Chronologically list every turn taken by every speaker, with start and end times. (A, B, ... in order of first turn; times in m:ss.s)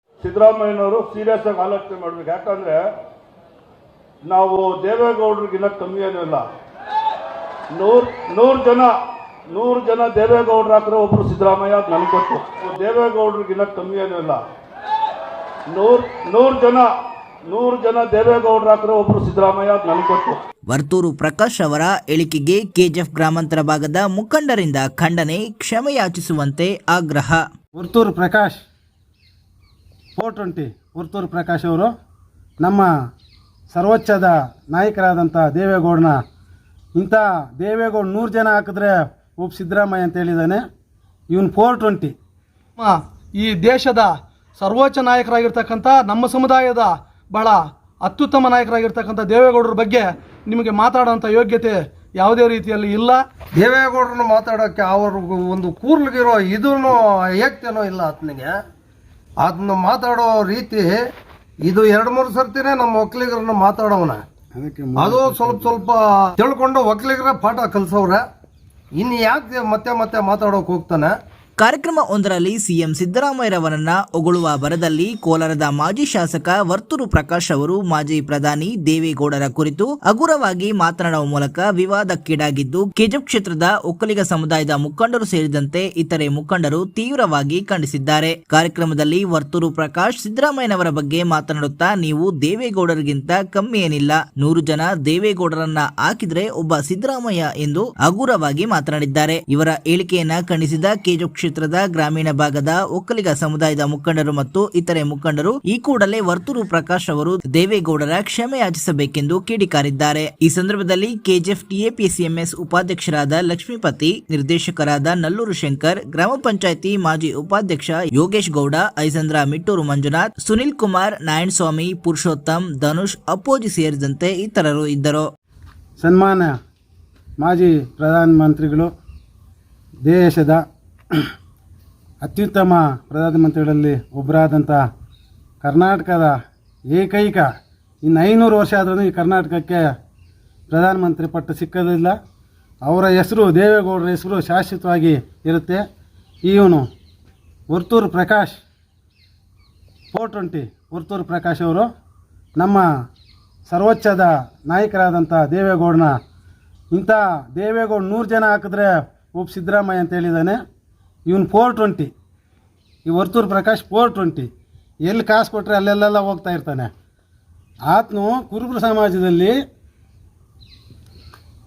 0:00.2-0:02.8 A
0:04.2-0:06.4 A
0:07.7-0:08.9 A
0:09.5-0:14.4 A
0:15.7-0:16.9 A
0:17.4-0:20.4 A
0:20.7-0:27.4 B
0:27.8-0:28.6 C
0:30.2-0:31.9 C
0:32.6-0:32.9 C
0:33.7-0:36.2 C
0:37.0-0:40.6 C
0:41.3-0:42.1 C
0:42.8-0:53.2 D
0:53.6-0:58.5 E
0:59.4-1:01.0 E
1:01.6-1:04.2 E
1:04.5-1:05.8 C
1:05.0-1:08.2 E
1:09.0-1:11.1 E
1:11.6-2:05.3 B
2:06.0-2:06.5 C
2:07.4-2:08.9 C
2:10.0-2:10.6 C
2:12.2-2:14.8 C
2:15.6-2:16.4 C
2:16.9-2:17.5 C
2:18.0-2:19.9 C
2:20.7-2:22.2 C
2:22.8-2:25.8 C
2:26.4-2:26.8 C
2:27.7-2:28.6 C
2:30.1-2:31.9 C
2:32.6-2:32.8 C
2:33.7-2:36.1 C
2:36.9-2:40.6 C
2:41.3-2:42.1 C
2:43.1-2:44.5 C
2:45.0-2:46.9 C
2:47.9-2:49.6 C